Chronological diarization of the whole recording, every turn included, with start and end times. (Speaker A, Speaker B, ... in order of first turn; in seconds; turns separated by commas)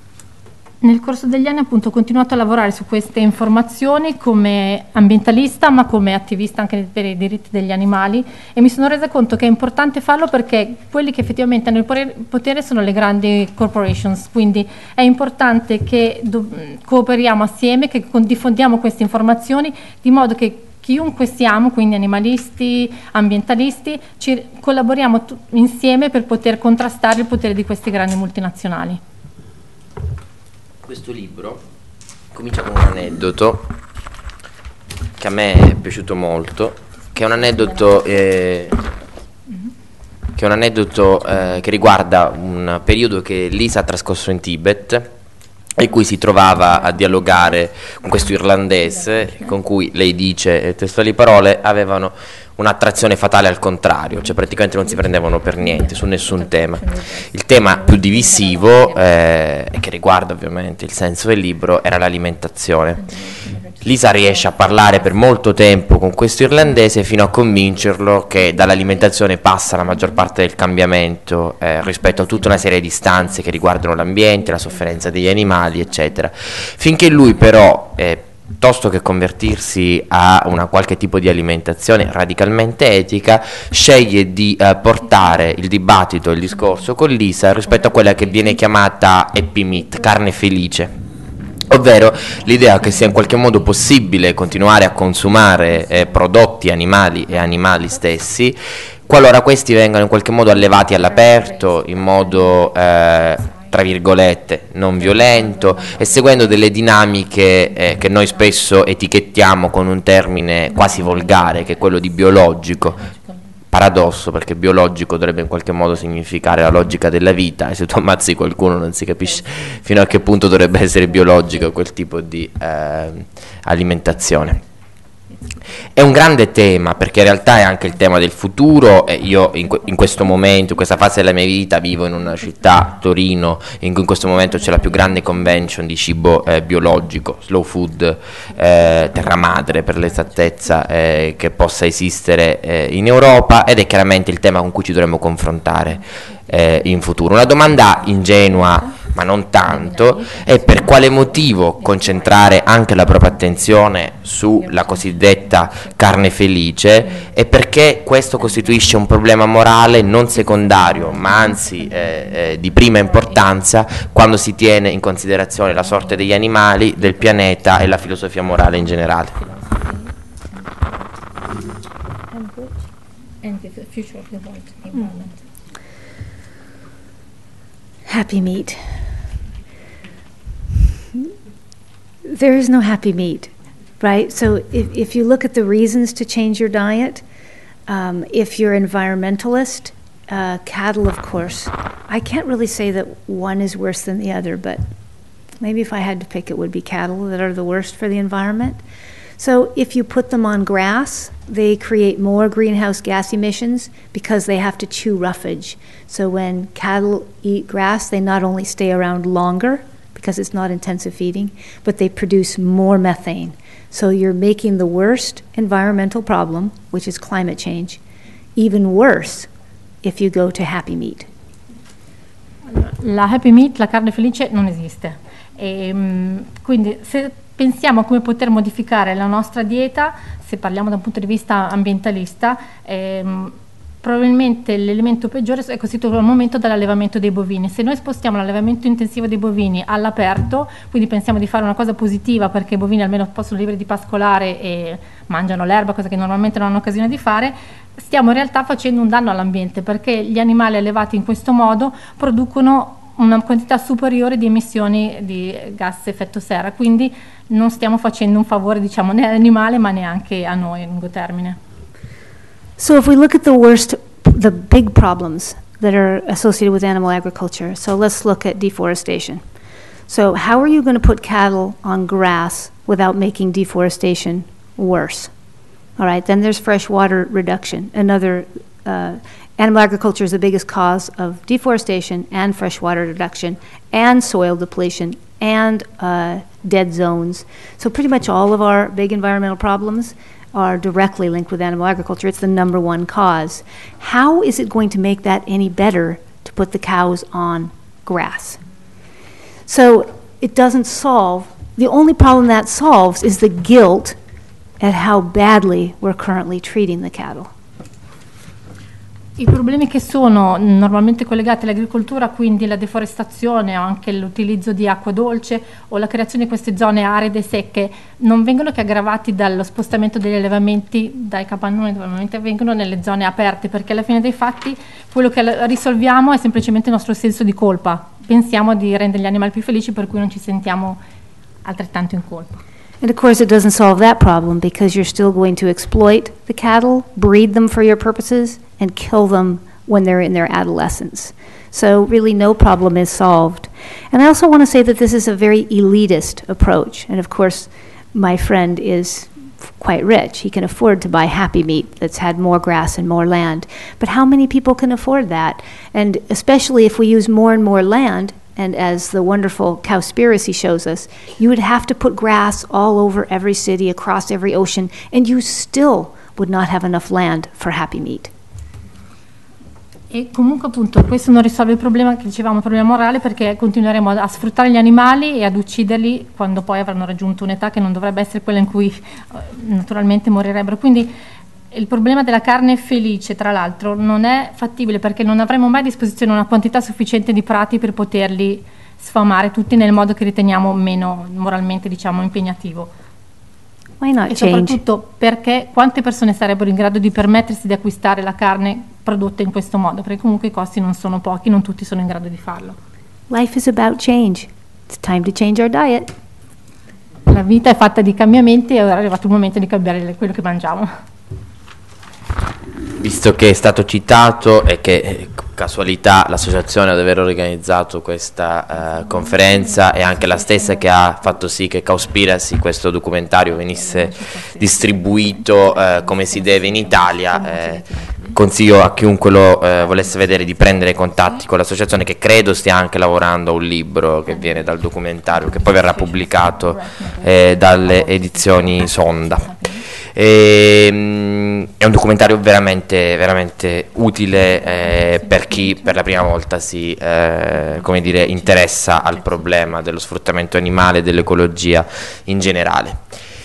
Speaker A: 0.8-29.0, Speaker B: 30.9-31.6, Speaker B: 32.3-33.7, Speaker B: 35.2-38.8, Speaker A: 37.4-38.0, Speaker B: 40.4-45.1, Speaker B: 45.8-63.0, Speaker A: 46.6-49.5, Speaker A: 54.2-59.1, Speaker A: 62.9-65.2, Speaker B: 63.8-90.9, Speaker A: 68.3-69.1, Speaker A: 69.7-70.3, Speaker A: 71.9-76.1, Speaker A: 77.2-77.5, Speaker A: 86.5-86.8, Speaker A: 87.6-88.6, Speaker A: 89.8-90.1, Speaker B: 91.7-113.0, Speaker A: 92.2-94.5, Speaker A: 95.0-96.2, Speaker A: 97.2-98.0, Speaker A: 100.5-103.7, Speaker A: 105.0-106.7, Speaker A: 107.6-108.7, Speaker A: 110.7-113.5, Speaker B: 113.7-124.6, Speaker A: 119.3-121.7, Speaker B: 125.9-169.3, Speaker A: 129.5-131.1, Speaker A: 132.1-133.0, Speaker A: 134.2-135.6, Speaker A: 138.5-141.3, Speaker A: 145.7-153.8, Speaker A: 154.4-156.2, Speaker A: 157.0-157.3, Speaker A: 158.3-159.2, Speaker A: 160.3-163.5, Speaker A: 165.8-167.9, Speaker A: 168.6-171.1, Speaker A: 172.3-172.8, Speaker A: 173.4-175.4, Speaker C: 178.1-179.0, Speaker C: 182.2-187.2, Speaker C: 187.9-194.8, Speaker C: 195.6-198.8, Speaker C: 199.4-218.0, Speaker C: 218.6-219.5, Speaker C: 220.0-221.3, Speaker A: 222.7-261.6, Speaker C: 262.8-269.4, Speaker C: 270.1-275.3, Speaker C: 276.0-298.6, Speaker C: 299.6-304.2, Speaker C: 304.8-307.5, Speaker A: 309.4-331.0, Speaker A: 331.6-332.6, Speaker C: 333.0-368.3, Speaker A: 370.1-381.1, Speaker A: 381.7-392.9, Speaker C: 394.0-394.8, Speaker A: 394.3-402.8, Speaker C: 403.3-406.1, Speaker A: 407.3-410.9, Speaker B: 413.0-427.8, Speaker A: 418.7-420.9, Speaker A: 423.5-428.4, Speaker B: 428.3-453.0, Speaker A: 429.7-431.4, Speaker A: 434.2-439.8, Speaker A: 444.3-446.1, Speaker A: 447.5-449.7